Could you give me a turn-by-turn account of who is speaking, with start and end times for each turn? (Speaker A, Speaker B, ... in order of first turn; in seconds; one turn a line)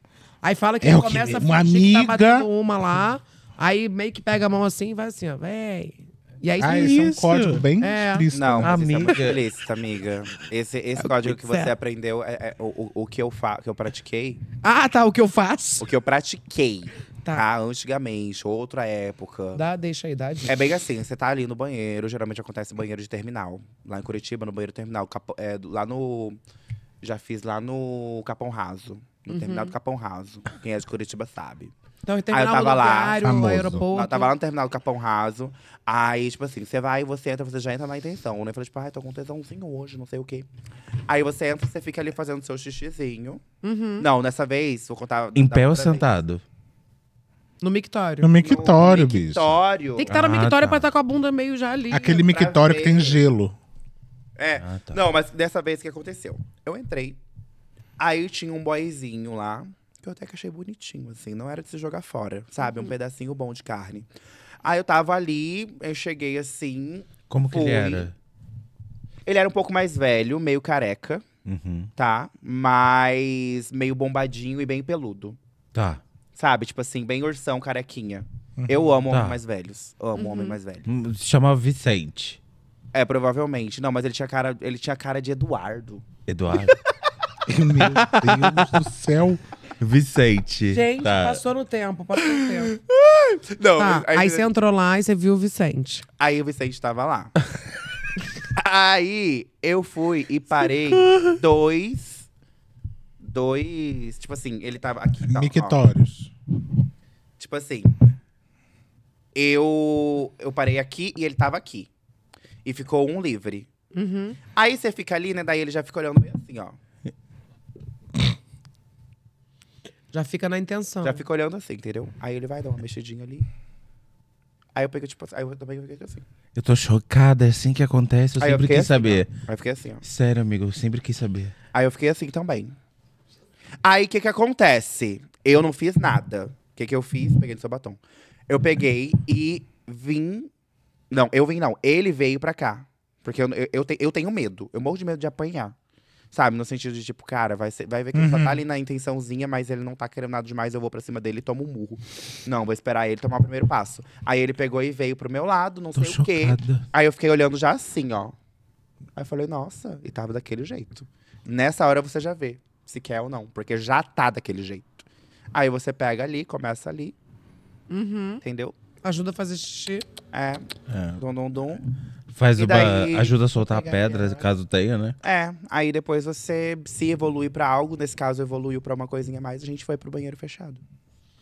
Speaker A: 0.4-7.0
Speaker B: 0.8-2.5
Speaker B: 6.6-9.1
Speaker C: 6.6-7.7
Speaker A: 7.8-8.3
Speaker D: 8.3-14.4
Speaker C: 8.6-9.4
Speaker A: 11.0-11.7
Speaker A: 14.6-15.9
Speaker D: 15.8-19.6
Speaker A: 19.6-20.6
Speaker D: 20.5-26.4
Speaker D: 27.0-31.7
Speaker A: 29.3-29.7
Speaker A: 32.0-34.3
Speaker D: 32.3-33.2
Speaker B: 33.2-33.9
Speaker D: 33.9-40.5
Speaker D: 41.1-43.4
Speaker A: 43.6-44.1
Speaker D: 44.0-46.2
Speaker C: 45.4-46.4
Speaker A: 47.6-48.3
Speaker B: 48.2-49.6
Speaker D: 48.4-50.1
Speaker A: 50.0-52.3
Speaker C: 50.1-50.9
Speaker B: 51.9-53.5
Speaker D: 52.2-53.2
Speaker D: 54.4-57.2
Speaker C: 54.6-55.0
Speaker D: 58.0-64.1
Speaker A: 62.6-62.9
Speaker D: 64.6-68.1
Speaker C: 67.3-68.1
Speaker D: 69.3-71.2
Speaker C: 71.5-71.9
Speaker D: 72.0-75.4
Speaker C: 75.7-76.0
Speaker D: 76.3-80.9
Speaker B: 78.6-78.8
Speaker C: 79.1-79.4
Speaker A: 80.2-80.6
Speaker C: 80.9-82.4
Speaker D: 82.9-86.0
Speaker C: 86.3-86.8
Speaker B: 87.5-89.4
Speaker C: 88.0-88.6
Speaker C: 89.8-91.4
Speaker A: 90.7-92.8
Speaker D: 92.6-94.5
Speaker A: 93.8-96.0
Speaker D: 96.2-97.3
Speaker D: 98.5-102.3
Speaker D: 103.2-105.8
Speaker B: 105.2-106.3
Speaker D: 107.4-108.0
Speaker D: 109.3-111.9
Speaker D: 112.6-113.7
Speaker A: 113.9-114.4
Speaker D: 114.5-116.8
Speaker A: 120.1-121.2
Speaker D: 121.0-123.5
Speaker D: 124.8-126.2
Speaker C: 126.5-129.3
Speaker D: 128.4-130.0
Speaker C: 130.0-131.5
Speaker D: 131.7-132.8
Speaker D: 133.8-140.5
Speaker D: 141.1-145.8
Speaker D: 146.3-158.4
Speaker B: 148.1-148.6
Speaker C: 156.0-156.8
Speaker D: 159.2-167.2
Speaker A: 167.9-168.4
Speaker D: 168.4-168.7
Speaker A: 169.0-170.1
Speaker D: 170.3-171.9
Speaker C: 170.9-171.2
Speaker C: 172.3-175.2
Speaker D: 172.6-173.4
Speaker A: 173.5-174.4
Speaker D: 175.2-180.8